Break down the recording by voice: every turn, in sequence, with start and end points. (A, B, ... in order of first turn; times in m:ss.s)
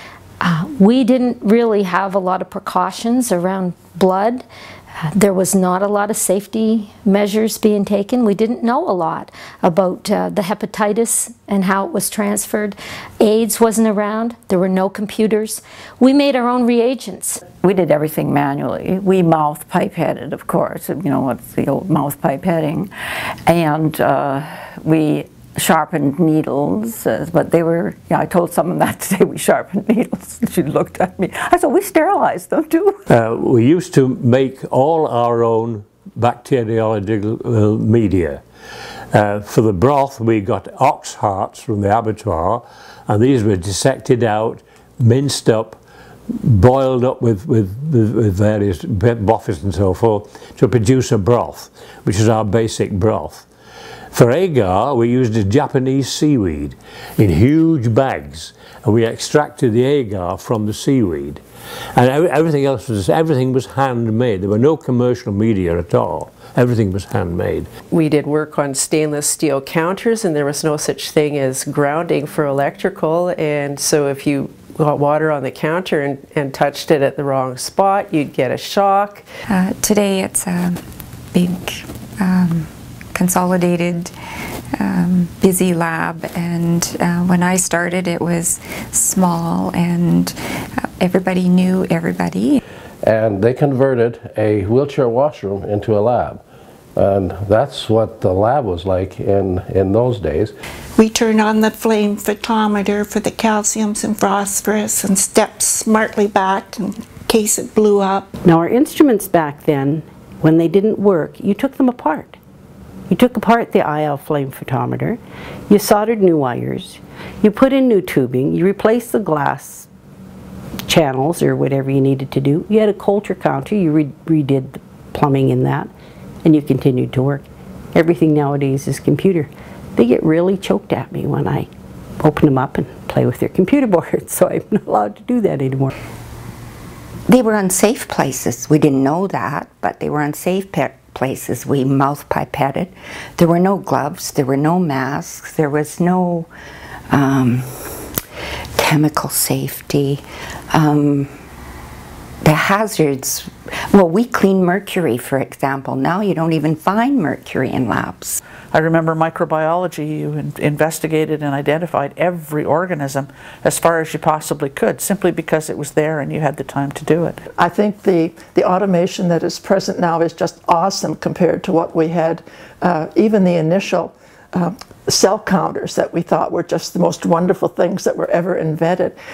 0:00.4-0:04.4 A
0:05.0-0:17.4 A
0:17.6-0:22.9 B
0:23.4-0:33.0 B
0:33.1-0:38.4 C
0:39.1-0:45.8 C
0:46.4-0:53.4 C
0:54.1-1:01.4 C
1:01.9-1:07.7 C
1:07.9-1:19.2 D
1:19.5-1:20.8 E
1:21.3-1:24.1 E
1:24.7-1:32.6 E
1:33.0-1:36.4 F
1:37.0-1:40.5 F
1:41.0-1:48.3 G
1:48.4-1:52.3 H
1:53.1-1:55.2 H
1:55.7-1:59.8 H
2:00.9-2:05.9 H
2:06.4-2:07.4 H
2:07.9-2:11.6 H
2:12.2-2:15.9 H
2:17.3-2:26.5 I
2:27.1-2:28.1 I
2:28.8-2:31.3 I
2:32.4-2:38.4 I
2:38.7-2:47.4 J
2:47.6-2:59.2 K